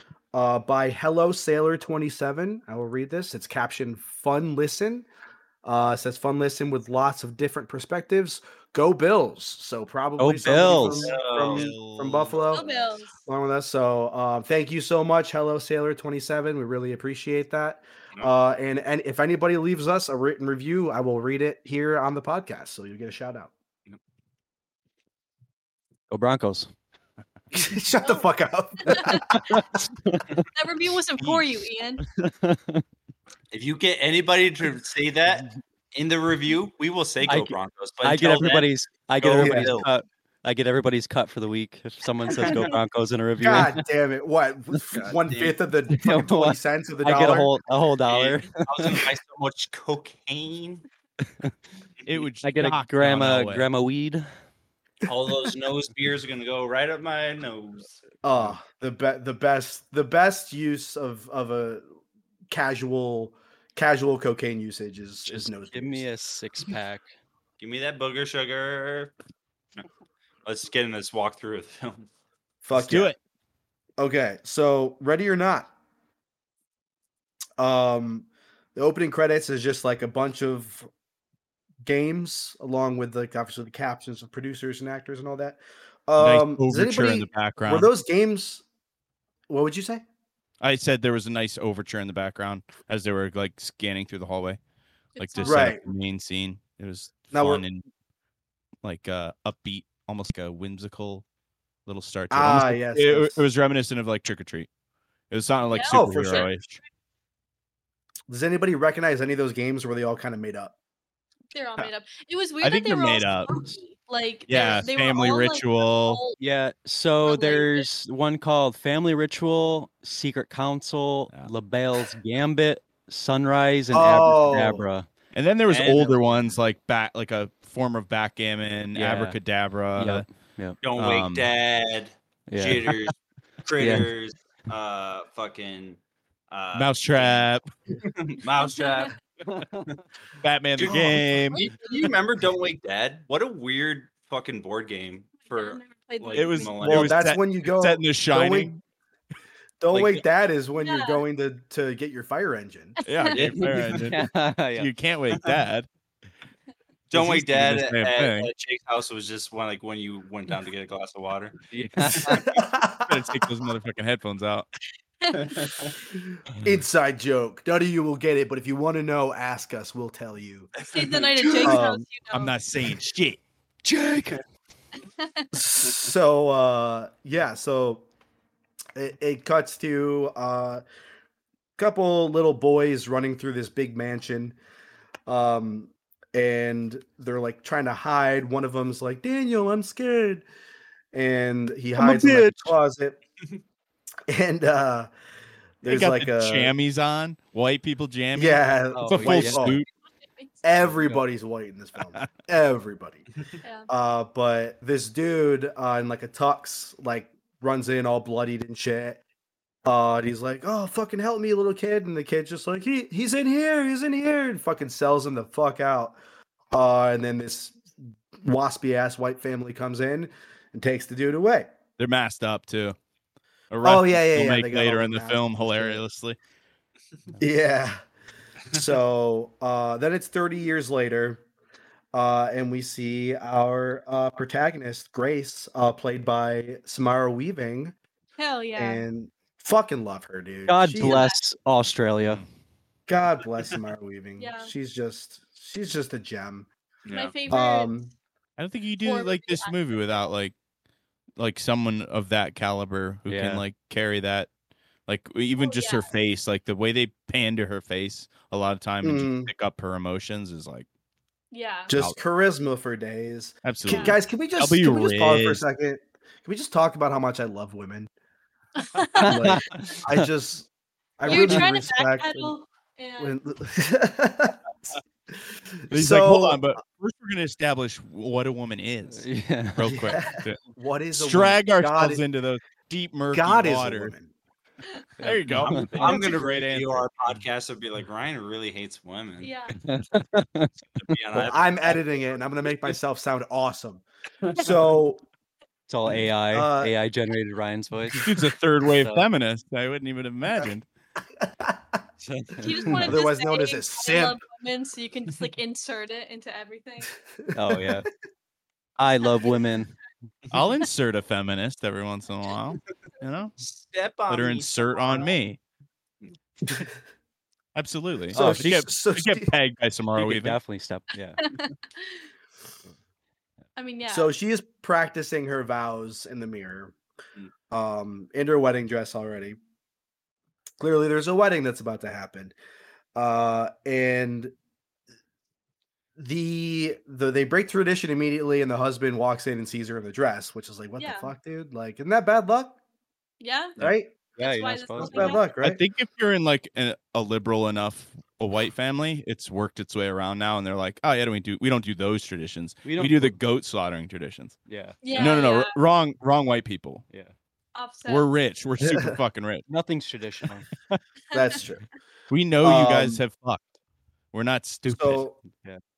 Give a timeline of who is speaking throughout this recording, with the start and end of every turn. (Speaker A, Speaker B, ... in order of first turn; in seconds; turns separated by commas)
Speaker A: 0.3-5.1, Speaker A: 5.6-12.7, Speaker B: 10.2-11.1, Speaker C: 10.7-11.7, Speaker D: 11.4-12.4, Speaker E: 12.5-13.2, Speaker A: 13.2-23.5, Speaker B: 26.1-26.7, Speaker A: 27.5-29.6, Speaker E: 28.8-29.2, Speaker B: 29.3-30.3, Speaker E: 30.5-32.0, Speaker D: 31.2-31.4, Speaker B: 32.1-32.8, Speaker C: 33.5-39.9, Speaker B: 37.2-43.8, Speaker A: 39.4-39.7, Speaker C: 42.3-42.7, Speaker A: 43.4-47.5, Speaker C: 45.0-45.5, Speaker B: 45.9-49.1, Speaker C: 48.1-50.8, Speaker D: 52.0-53.6, Speaker B: 52.4-54.2, Speaker C: 55.0-57.9, Speaker A: 58.2-61.8, Speaker A: 62.5-66.0, Speaker B: 65.3-67.1, Speaker C: 67.6-69.1, Speaker C: 70.4-72.1, Speaker A: 72.6-73.1, Speaker D: 72.7-73.2, Speaker A: 74.0-75.7, Speaker A: 77.6-80.9, Speaker A: 81.8-88.6, Speaker D: 86.2-87.9, Speaker A: 89.5-90.0, Speaker D: 90.6-94.6, Speaker E: 95.2-95.7, Speaker D: 95.2-97.8, Speaker A: 95.4-95.8, Speaker A: 97.3-97.6, Speaker D: 98.8-101.2, Speaker D: 101.8-104.7, Speaker A: 102.3-103.4, Speaker D: 105.3-106.8, Speaker E: 105.6-106.5, Speaker A: 105.9-106.5, Speaker A: 108.3-110.7, Speaker E: 111.5-116.3, Speaker D: 112.6-113.6, Speaker D: 114.5-116.2, Speaker B: 116.4-125.1, Speaker E: 117.2-117.9, Speaker A: 123.9-124.8, Speaker D: 125.3-130.2, Speaker C: 125.7-126.5, Speaker B: 128.9-129.4, Speaker B: 129.9-130.8, Speaker C: 130.8-136.0, Speaker D: 131.0-131.4, Speaker B: 132.5-132.9, Speaker B: 133.8-134.1, Speaker C: 136.5-137.5, Speaker D: 136.7-137.6, Speaker C: 138.0-139.9, Speaker E: 138.6-139.1, Speaker B: 139.5-139.9, Speaker D: 140.4-141.7, Speaker C: 140.8-147.2, Speaker E: 145.5-146.8, Speaker D: 146.3-148.8, Speaker A: 146.8-148.7, Speaker A: 149.8-153.0, Speaker C: 149.9-150.2, Speaker E: 150.8-151.2, Speaker E: 153.0-153.6, Speaker D: 153.1-155.9, Speaker C: 153.3-154.1, Speaker B: 153.9-154.9, Speaker C: 155.3-155.6, Speaker C: 157.1-161.6, Speaker D: 157.1-158.5, Speaker B: 161.7-162.4, Speaker A: 162.4-163.2, Speaker D: 163.0-164.7, Speaker E: 165.2-165.5, Speaker C: 165.3-165.9, Speaker A: 166.2-170.7, Speaker E: 170.9-172.5, Speaker A: 171.6-172.1, Speaker D: 172.3-173.4, Speaker B: 173.8-174.4, Speaker A: 175.5-178.1, Speaker A: 178.9-180.8, Speaker A: 181.8-184.6, Speaker A: 185.3-190.4, Speaker A: 191.1-193.2, Speaker B: 192.0-192.7, Speaker A: 194.3-195.1, Speaker A: 195.8-196.7, Speaker D: 195.8-199.9, Speaker A: 198.3-199.8, Speaker B: 198.9-199.8, Speaker A: 200.6-203.2, Speaker B: 200.9-201.2, Speaker A: 203.9-209.2, Speaker A: 209.8-216.2, Speaker A: 216.7-217.8, Speaker A: 218.4-221.7, Speaker D: 222.0-223.0, Speaker D: 223.7-226.4, Speaker A: 223.8-226.0, Speaker A: 227.4-228.0, Speaker A: 228.7-231.4, Speaker A: 232.1-237.9, Speaker E: 238.4-239.0, Speaker A: 238.8-241.2, Speaker B: 240.7-242.4, Speaker E: 241.0-241.4, Speaker A: 243.1-246.7, Speaker E: 244.4-244.7, Speaker C: 247.1-247.4, Speaker E: 247.1-247.9, Speaker A: 247.5-248.1, Speaker D: 248.6-250.5, Speaker E: 249.0-250.1, Speaker D: 251.4-254.5, Speaker B: 253.3-253.6, Speaker D: 255.1-260.9, Speaker E: 255.6-256.1, Speaker A: 259.0-259.5, Speaker E: 261.5-261.9, Speaker A: 261.9-268.1, Speaker D: 261.9-262.2, Speaker D: 263.6-265.6, Speaker E: 263.9-264.2, Speaker E: 268.8-269.5, Speaker B: 269.1-270.2, Speaker A: 269.2-270.7, Speaker A: 271.2-272.5, Speaker E: 271.2-273.4, Speaker B: 271.3-271.6, Speaker A: 273.2-276.7, Speaker D: 275.9-280.6, Speaker B: 279.1-279.8, Speaker A: 279.8-282.2, Speaker D: 281.1-284.1, Speaker A: 283.3-284.3, Speaker B: 285.2-286.0, Speaker D: 285.2-287.1, Speaker C: 285.5-289.5, Speaker E: 289.4-289.8, Speaker B: 289.8-290.7, Speaker C: 291.0-292.0, Speaker A: 291.3-294.0, Speaker C: 294.4-294.8, Speaker A: 294.5-295.2, Speaker B: 295.9-298.3, Speaker A: 296.5-296.9, Speaker D: 298.2-300.8, Speaker B: 298.9-299.2, Speaker A: 301.4-302.0, Speaker C: 302.3-302.9, Speaker E: 302.6-307.1, Speaker A: 303.0-304.4, Speaker B: 307.5-308.1, Speaker B: 309.0-310.0, Speaker D: 310.5-313.6, Speaker C: 313.6-315.3, Speaker D: 314.3-315.6, Speaker D: 317.7-320.6, Speaker B: 318.3-318.9, Speaker A: 318.3-319.5, Speaker B: 320.1-321.4, Speaker E: 321.4-322.2, Speaker E: 323.8-324.3, Speaker A: 324.1-326.9, Speaker A: 327.7-329.6, Speaker A: 330.8-332.5, Speaker A: 333.1-334.5, Speaker A: 336.2-342.8, Speaker E: 341.0-341.3, Speaker E: 343.4-343.8, Speaker A: 343.8-344.1, Speaker B: 344.4-345.4, Speaker E: 344.4-345.5, Speaker A: 345.0-345.8, Speaker D: 345.6-354.6, Speaker B: 352.8-353.4, Speaker B: 354.7-355.0, Speaker E: 355.0-355.8, Speaker D: 355.1-357.0, Speaker E: 357.7-358.3, Speaker D: 358.1-359.6, Speaker A: 358.8-359.2, Speaker B: 359.7-360.7, Speaker A: 361.3-361.8, Speaker D: 362.3-363.7, Speaker A: 362.6-363.2, Speaker D: 364.3-365.2, Speaker A: 364.9-365.4, Speaker B: 365.4-365.8